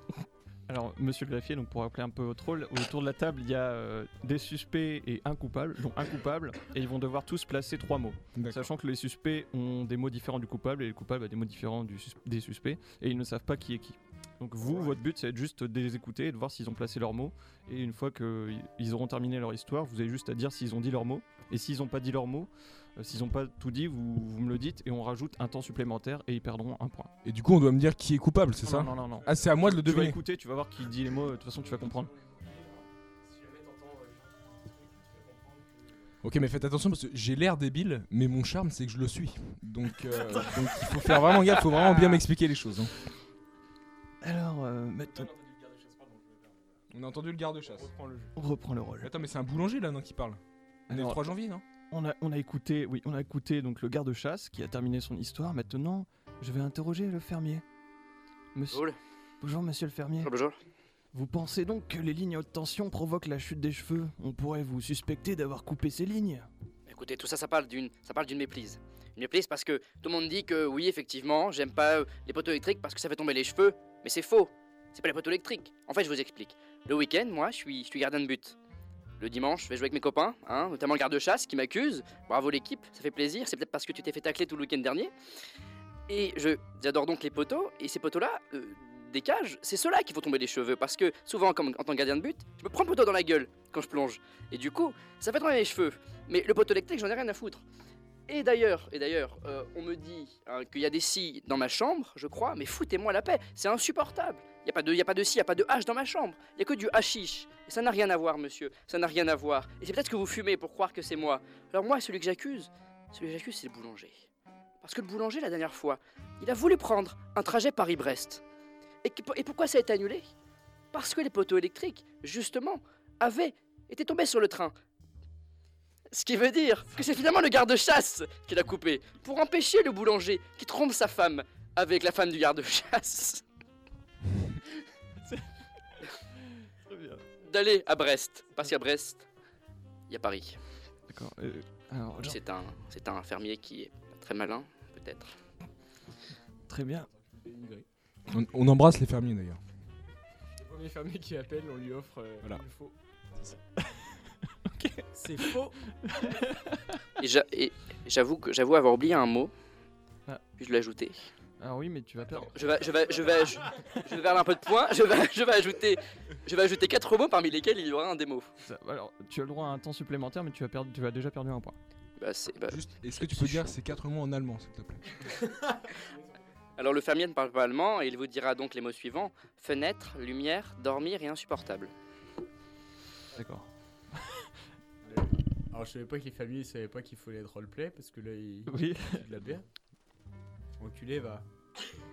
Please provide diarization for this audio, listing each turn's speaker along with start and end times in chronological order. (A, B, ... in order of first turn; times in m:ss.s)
0:00.7-0:27.1 A
0:08.3-0:08.7 B
0:27.2-0:30.2 B
0:28.6-0:32.1 A
0:28.9-0:29.7 C
0:31.5-0:36.1 C
0:36.2-0:42.9 B
0:40.1-0:42.2 A
0:44.2-0:45.3 A
0:45.0-0:46.8 C
0:46.9-0:47.9 B
0:47.6-0:48.3 C
0:48.4-0:49.1 A
0:49.0-0:51.6 B
0:50.9-0:51.3 A
0:51.9-0:57.6 A
0:58.5-0:58.8 A
0:58.7-0:59.0 D
0:59.4-1:00.3 A
1:00.2-1:00.6 D
1:01.1-1:06.5 A
1:06.9-1:18.6 D
1:19.2-1:25.1 D
1:26.1-1:37.6 D
1:38.3-1:54.3 D
1:54.8-1:58.4 D
1:59.0-2:00.3 D
2:00.9-2:04.7 D
2:06.1-2:13.4 D
2:16.6-2:17.2 A
2:17.4-2:19.2 D
2:20.1-2:20.6 D
2:21.1-2:22.4 A
2:22.2-2:25.3 D
2:26.7-2:27.1 A
2:27.2-2:27.8 C
2:28.3-2:29.6 B
2:30.6-2:32.9 C
2:33.8-2:37.0 A
2:35.1-2:35.8 E
2:37.2-2:39.5 D
2:40.6-2:41.3 D
2:41.6-2:42.6 A
2:42.4-2:48.5 D
2:48.6-2:51.8 A
2:52.2-2:53.7 D
2:52.7-2:55.2 B
2:55.4-2:55.8 E
2:56.8-3:01.9 D
3:03.3-3:04.5 A
3:05.0-3:09.6 E
3:08.7-3:09.4 A
3:10.8-3:11.4 E